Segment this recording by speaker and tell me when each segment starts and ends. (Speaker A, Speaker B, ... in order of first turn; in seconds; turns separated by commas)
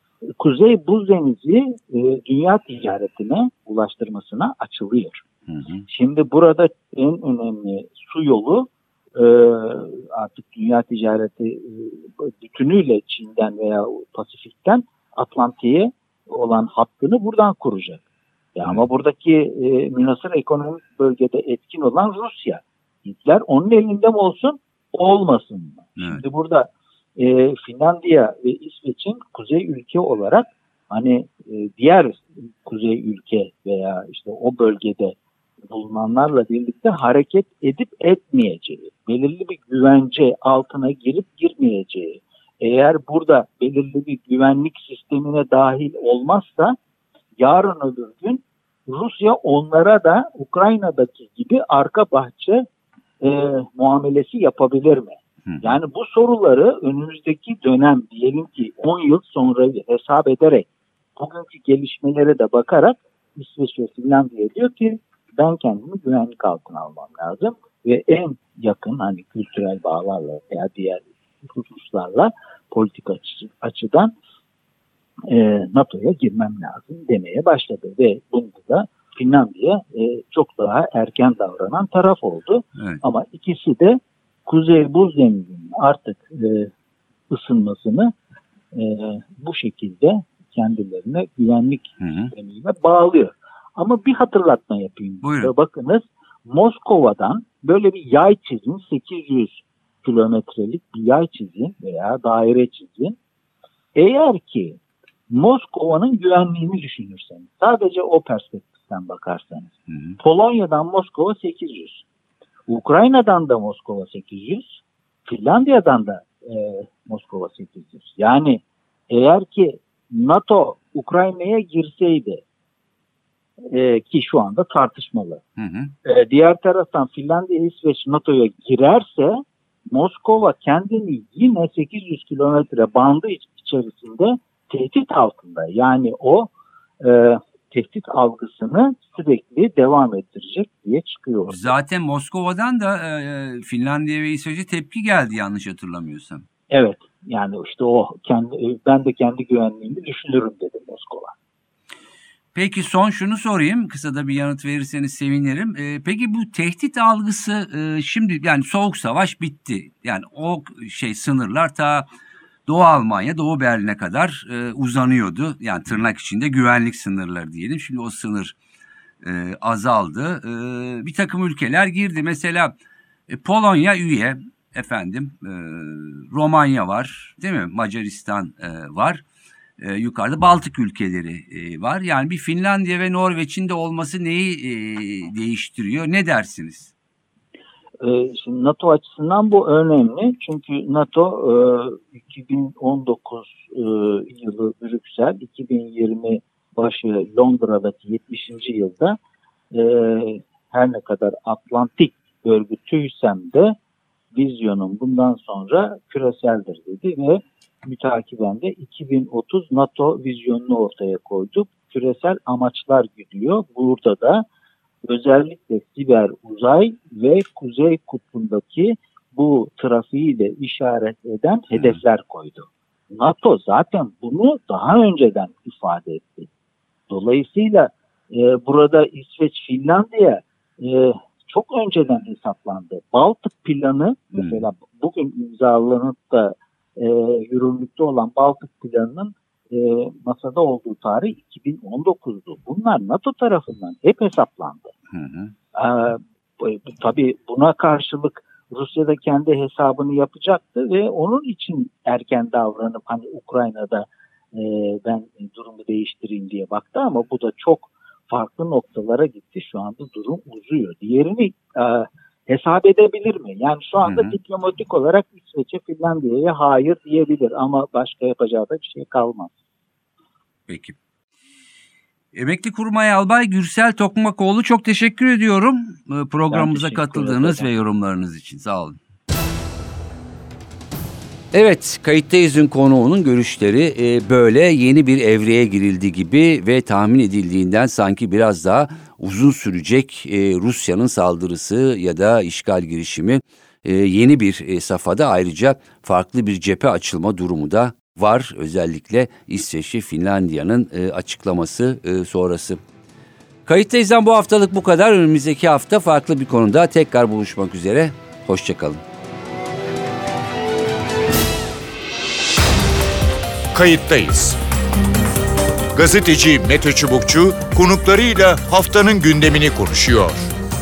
Speaker A: 0.4-5.2, Speaker B: 5.5-5.8, Speaker A: 5.9-18.0, Speaker A: 18.6-35.2, Speaker B: 26.0-26.2, Speaker A: 35.7-46.8, Speaker A: 47.4-52.6, Speaker A: 53.2-74.1, Speaker B: 55.5-55.8, Speaker A: 75.3-86.7, Speaker A: 87.3-88.1, Speaker A: 88.7-103.2, Speaker B: 92.0-92.3, Speaker B: 95.2-95.5, Speaker A: 104.0-104.8, Speaker A: 105.3-112.0, Speaker B: 109.9-110.2, Speaker A: 112.7-122.4, Speaker A: 123.7-125.4, Speaker B: 125.6-125.9, Speaker A: 126.0-129.4, Speaker A: 129.9-141.7, Speaker B: 141.5-146.4, Speaker A: 146.7-151.3, Speaker B: 152.5-162.1, Speaker B: 162.7-168.6, Speaker B: 169.2-172.7, Speaker B: 173.3-179.2, Speaker B: 179.8-186.9, Speaker A: 188.0-199.2, Speaker A: 199.7-203.8, Speaker A: 204.3-214.4, Speaker A: 215.1-226.5, Speaker B: 221.8-222.0, Speaker A: 227.1-244.9, Speaker B: 234.3-234.7, Speaker B: 245.1-245.5, Speaker A: 245.7-269.6, Speaker B: 264.0-264.4, Speaker B: 270.7-271.0, Speaker B: 272.3-279.0, Speaker A: 276.5-277.7, Speaker B: 281.5-302.8, Speaker B: 303.7-309.0, Speaker C: 313.7-314.6, Speaker C: 315.9-320.5